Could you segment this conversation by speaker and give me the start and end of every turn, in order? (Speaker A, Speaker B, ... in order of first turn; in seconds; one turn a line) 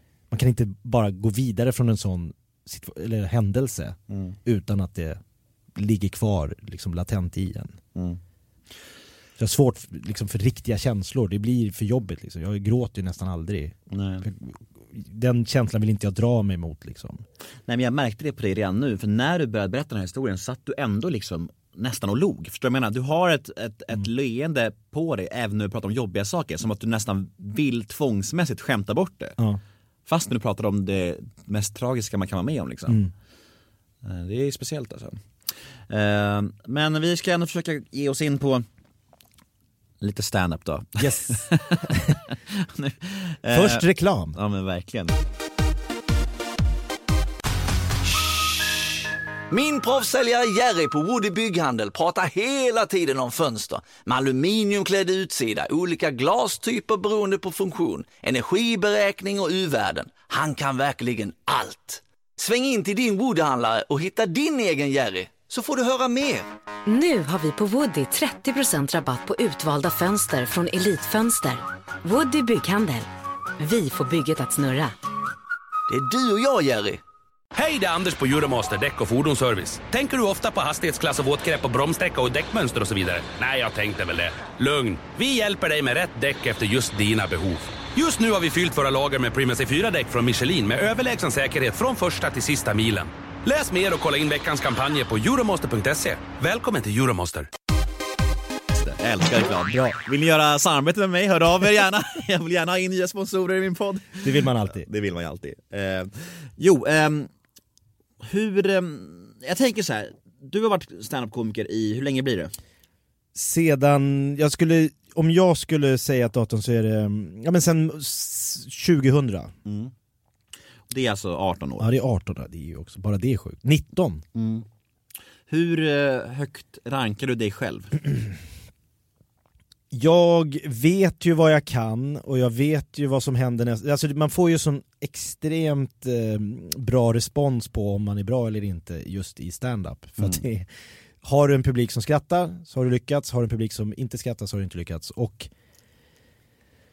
Speaker A: 0.3-5.2
Speaker B: 4.1-4.3
Speaker A: 5.7-7.8
Speaker B: 7.9-8.2
Speaker A: 9.4-17.2
Speaker B: 13.9-14.2
Speaker B: 17.7-29.4
Speaker B: 30.1-33.0
Speaker B: 34.0-35.2
Speaker B: 35.9-38.6
Speaker B: 40.0-45.1
Speaker A: 41.0-42.1
Speaker A: 43.5-44.4
Speaker C: 49.5-66.5
Speaker D: 66.9-74.9
Speaker C: 75.9-77.0
Speaker E: 77.5-97.5
Speaker B: 98.7-107.3
Speaker A: 104.2-104.9
Speaker B: 108.2-112.5
Speaker A: 113.3-119.5
Speaker B: 119.7-119.9
Speaker B: 120.9-121.9
Speaker A: 121.8-124.2
Speaker B: 124.3-124.6
Speaker B: 125.5-128.0
Speaker A: 129.9-140.7
Speaker A: 141.2-145.5